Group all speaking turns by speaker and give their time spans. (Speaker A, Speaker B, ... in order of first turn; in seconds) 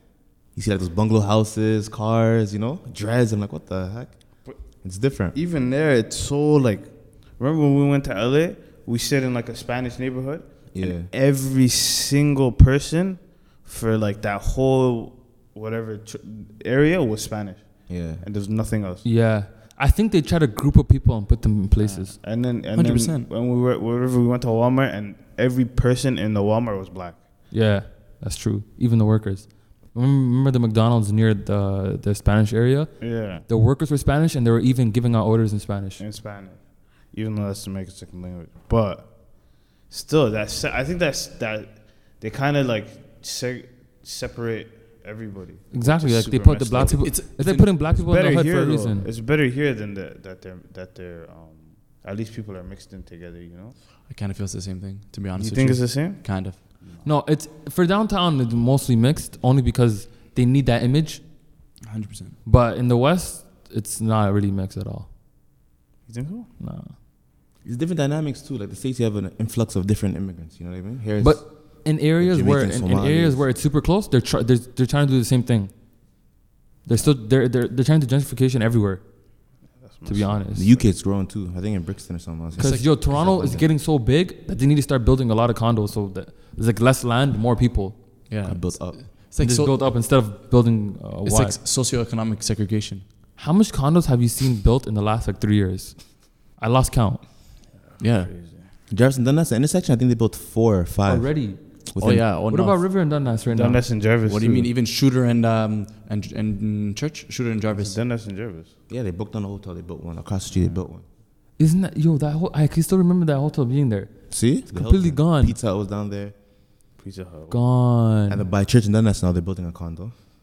Speaker A: 0.5-5.3, 10.7-11.1, 17.9-18.2, 67.6-73.5, 80.5-83.7, 88.4-89.0, 98.9-102.3, 108.9-111.0, 114.3-116.3, 118.3-120.1
Speaker B: 5.3-19.1, 21.8-27.3, 33.0-33.5, 36.0-53.8, 55.4-57.0, 66.1-66.5, 79.7-80.8, 97.8-98.7, 103.5-104.7, 107.7-108.7, 117.0-117.6
Speaker C: 19.0-22.1, 27.5-36.0, 45.7-49.1, 57.0-61.2, 62.4-65.1, 66.6-66.9, 71.2-75.7, 76.8-79.1, 80.0-80.8, 82.6-88.1, 89.4-91.6, 93.4-97.3, 101.0-101.8, 102.4-103.8, 111.6-115.6, 117.5-118.4
Speaker D: 22.7-23.3, 46.8-47.8, 54.1-56.6, 61.8-62.4, 82.6-82.9, 88.3-89.8, 91.2-93.0, 98.0-98.3, 102.0-102.8, 104.2-108.0